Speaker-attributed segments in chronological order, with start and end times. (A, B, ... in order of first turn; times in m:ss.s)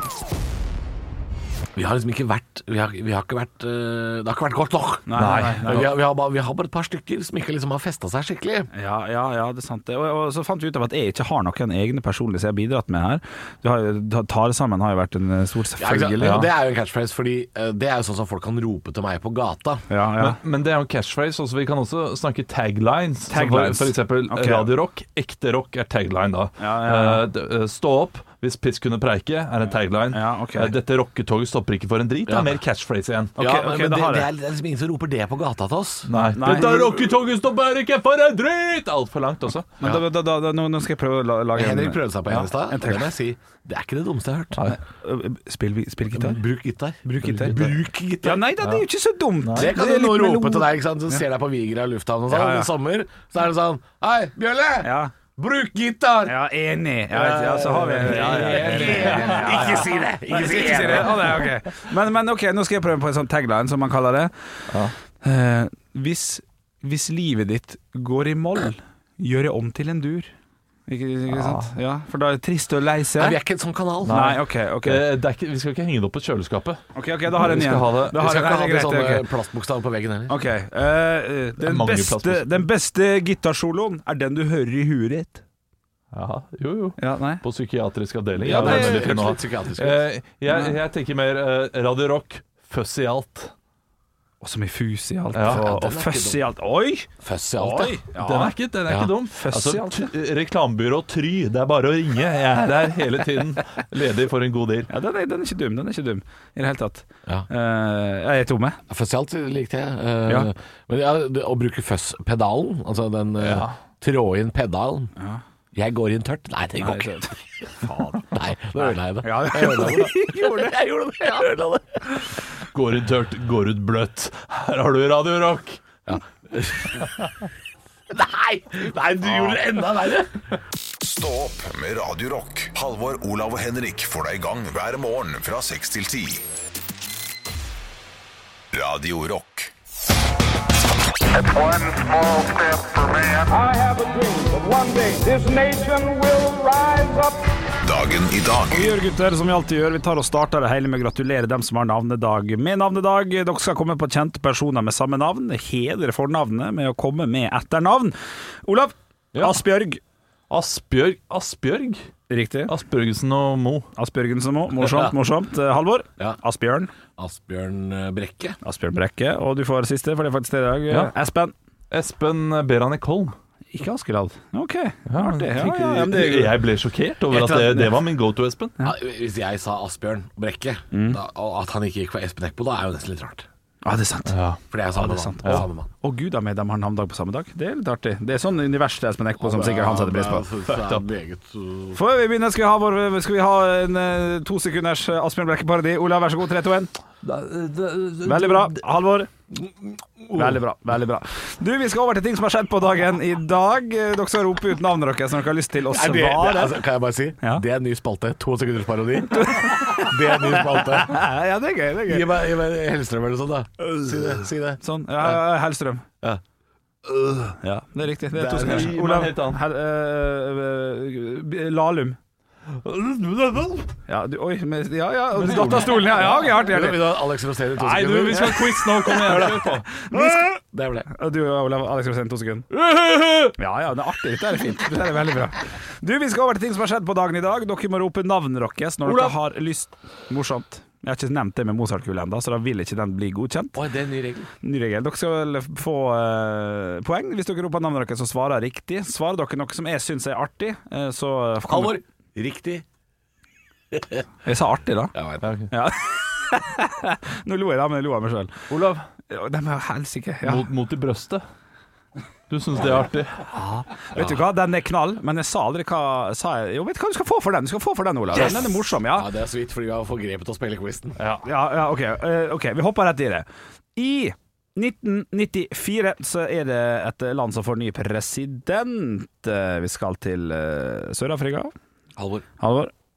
0:01.8-0:08.7 A
0:05.1-0:05.9 B
0:05.2-0:05.8 C
0:08.7-0:16.4 B
0:15.8-0:19.9 A
0:16.2-0:16.5 C
0:19.9-0:20.4 B
0:20.2-0:33.4 C
0:23.3-0:24.7 B
0:26.6-0:27.2 B
0:30.1-0:30.7 B
0:32.3-0:32.6 A
0:33.4-0:36.1 A
0:33.4-0:34.3 B
0:36.1-0:39.8 C
0:36.3-0:37.0 B
0:39.8-0:43.1 B
0:41.5-0:44.6 A
0:44.7-0:46.4 B
0:46.1-0:48.5 A
0:47.0-0:47.7 B
0:47.2-0:47.8 C
0:48.2-0:51.2 B
0:49.4-0:49.7 C
0:49.6-0:56.4 A
0:52.3-0:52.7 B
0:54.8-0:55.1 B
0:56.3-1:04.3 B
0:57.1-1:01.4 A
0:58.0-0:59.8 C
1:05.2-1:10.3 B
1:10.9-1:13.4 B
1:11.3-1:11.7 C
1:13.2-1:14.2 A
1:14.0-1:18.2 C
1:14.0-1:15.0 B
1:17.0-1:19.3 B
1:18.1-1:20.4 A
1:20.3-1:25.4 B
1:21.6-1:22.6 C
1:26.1-1:33.5 C
1:27.0-1:27.4 B
1:28.4-1:30.0 A
1:28.4-1:29.2 B
1:30.5-1:30.8 B
1:34.4-1:38.6 B
1:35.3-1:35.6 C
1:35.4-1:36.4 A
1:37.2-1:38.0 A
1:38.2-1:44.9 C
1:38.9-1:39.1 A
1:39.2-1:40.1 B
1:44.9-1:48.8 B
1:48.9-1:55.1 A
1:53.4-1:53.8 C
1:55.7-1:57.1 A
1:56.8-2:00.8 B
1:58.3-2:02.2 A
2:02.7-2:05.8 C
2:06.1-2:07.2 A
2:08.1-2:10.4 A
2:11.0-2:16.4 D
2:18.7-2:19.7 D
2:21.3-2:27.4 E
2:27.8-2:28.9 D
2:28.7-2:40.0 B
2:40.5-2:42.1 C
2:42.3-2:42.7 B
2:42.7-2:43.9 C
2:44.0-2:46.9 B
2:44.8-2:45.2 A
2:47.2-2:48.6 A
2:48.6-2:51.5 B
2:51.9-2:53.4 C
2:53.7-2:56.6 B
2:55.1-2:58.8 C
2:57.3-2:58.0 A
2:58.8-3:03.5 A
3:00.9-3:01.2 B
3:03.8-3:04.4 B
3:04.3-3:04.6 C
3:04.7-3:05.9 A
3:04.9-3:10.4 B
3:09.4-3:12.0 A
3:10.7-3:11.0 C
3:12.0-3:16.9 B
3:17.2-3:18.8 C
3:18.2-3:19.3 B
3:19.5-3:20.6 A
3:20.3-3:26.8 B
3:25.9-3:31.2 A
3:29.3-3:32.3 B
3:32.1-3:35.4 A
3:33.9-3:36.0 B
3:37.1-3:37.6 C
3:37.6-3:42.2 B
3:38.4-3:39.0 A
3:38.4-3:39.6 C
3:42.8-3:43.9 C
3:44.1-3:47.0 B
3:45.4-3:46.3 C
3:45.4-3:48.9 A
3:47.8-3:50.1 C
3:48.5-3:50.6 B
3:50.6-3:51.1 A
3:51.1-3:52.7 B
3:52.7-3:53.6 C
3:53.6-4:03.8 B
3:59.0-3:59.4 C
4:03.8-4:04.5 A
4:04.6-4:12.0 B
4:11.7-4:12.8 A
4:13.9-4:14.3 A
4:14.4-4:15.2 B
4:15.1-4:15.5 A
4:15.4-4:15.7 C
4:15.7-4:18.6 B
4:18.7-4:19.1 C
4:19.3-4:20.6 B
4:20.4-4:21.4 C
4:22.5-4:23.5 C
4:23.5-4:29.3 B
4:28.3-4:31.2 A
4:31.2-4:31.4 C
4:31.4-4:41.7 B
4:42.2-4:42.5 A
4:42.6-4:42.9 B